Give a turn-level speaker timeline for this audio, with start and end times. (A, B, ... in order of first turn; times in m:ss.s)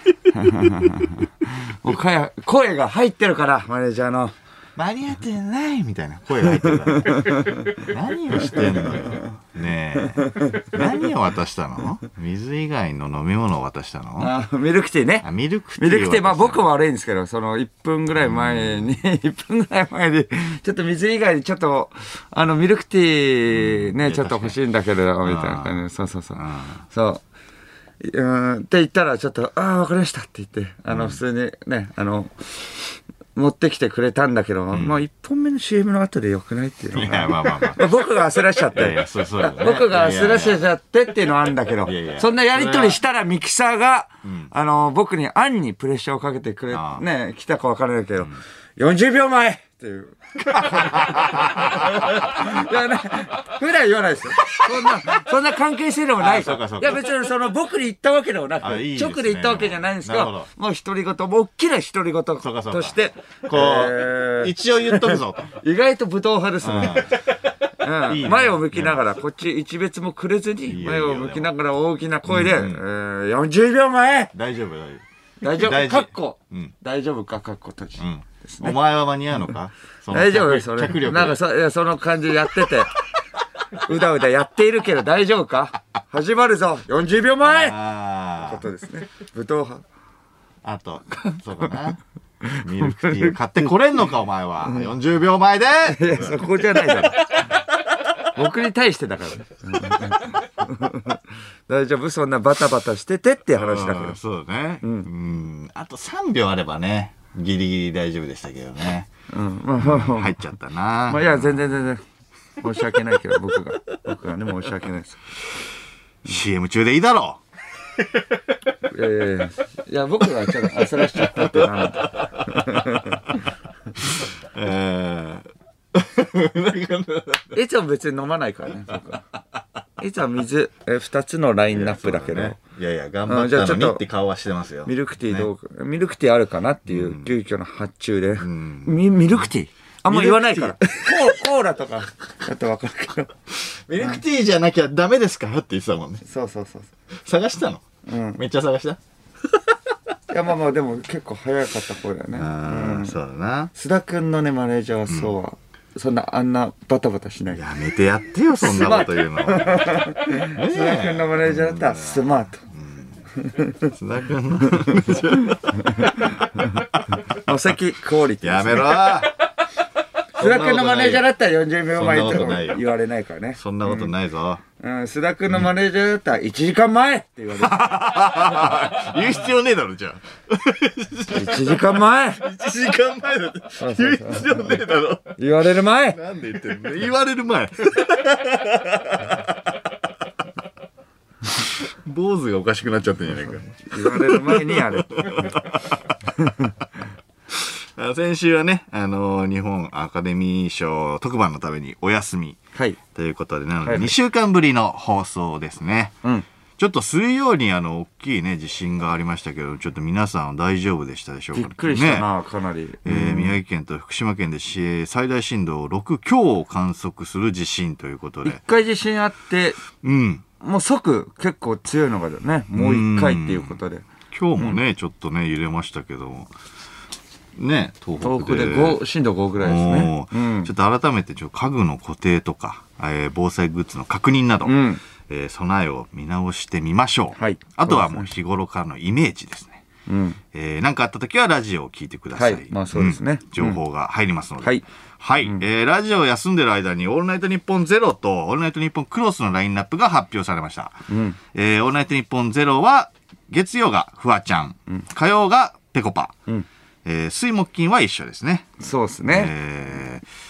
0:00.3-0:04.4 A
0:04.8-0:14.3 B
0:06.6-0:07.7 A
0:08.4-0:09.2 A
0:10.2-0:10.8 A
0:14.2-0:15.3 A
0:15.2-0:16.7 B
0:15.8-0:27.2 A
0:18.3-0:18.8 B
0:23.5-0:24.6 B
0:25.2-0:25.8 B
0:26.4-0:26.8 B
0:28.0-1:14.3 A
0:30.9-0:31.2 B
0:34.7-0:35.0 B
0:36.9-0:38.0 B
0:38.7-0:40.7 B
0:41.8-0:43.0 B
0:44.2-0:44.5 B
0:46.7-0:47.0 B
0:50.4-0:52.5 B
0:56.2-0:57.0 B
0:58.6-1:00.5 B
1:02.4-1:05.5 B
1:06.6-1:07.3 B
1:08.0-1:09.0 B
1:10.7-1:11.5 B
1:12.3-1:12.8 B
1:14.3-1:16.7 B
1:15.4-1:18.8 A
1:18.0-1:21.4 B
1:20.1-1:22.9 A
1:23.7-1:27.8 A
1:27.4-1:28.6 B
1:28.4-1:29.8 A
1:30.6-1:32.0 B
1:32.5-1:37.3 B
1:32.6-1:33.3 A
1:35.8-1:37.6 A
1:38.3-1:44.2 A
1:43.6-1:49.1 B
1:44.8-1:45.1 A
1:49.3-1:50.4 A
1:49.8-1:51.6 B
1:51.1-1:52.0 A
1:52.6-1:55.2 A
1:56.2-1:57.4 B
1:58.9-2:03.2 A
2:01.3-2:03.0 B
2:04.0-2:07.6 B
2:07.5-2:09.2 A
2:10.0-2:12.6 A
2:11.7-2:15.5 B
2:13.3-2:14.0 A
2:14.9-2:23.4 A
2:16.9-2:17.3 B
2:18.4-2:19.2 B
2:20.1-2:21.2 B
2:23.5-2:26.2 B
2:26.2-2:26.9 A
2:27.2-2:29.0 B
2:28.1-2:28.4 A
2:30.3-2:33.2 A
2:32.3-2:33.7 B
2:33.7-2:37.6 A
2:37.5-2:43.1 B
2:38.6-2:42.6 A
2:43.4-2:43.9 A
2:43.9-2:47.2 B
2:44.8-2:45.2 A
2:46.0-2:46.8 A
2:47.3-2:49.3 A
2:48.4-2:49.4 B
2:50.4-2:54.1 A
2:50.4-2:51.3 B
2:51.9-2:52.8 B
2:53.6-2:54.6 B
2:54.8-2:58.8 A
2:57.5-3:05.4 B
3:01.3-3:02.5 A
3:03.8-3:04.8 A
3:05.4-3:06.2 A
3:06.1-3:09.6 B
3:11.5-3:16.2 B
3:13.9-3:15.6 A
3:16.4-3:16.7 A
3:17.5-3:22.6 B
3:23.1-3:26.2 B
3:23.8-3:24.1 A
3:26.8-3:32.3 B
3:31.6-3:33.5 A
3:33.0-3:38.6 B
3:38.4-3:39.8 A
3:40.0-3:40.4 B
3:40.6-3:44.0 A
3:42.7-3:43.8 B
3:44.3-3:46.5 B
3:47.6-3:49.0 B
3:48.2-3:50.7 A
3:49.6-3:59.8 B
3:54.6-3:55.0 A
3:57.4-3:58.3 A
4:00.1-4:00.4 A
4:00.5-4:16.4 B
4:02.4-4:03.8 A
4:11.1-4:11.4 A
4:17.0-4:18.7 B
4:18.8-4:19.5 A
4:19.3-4:20.2 B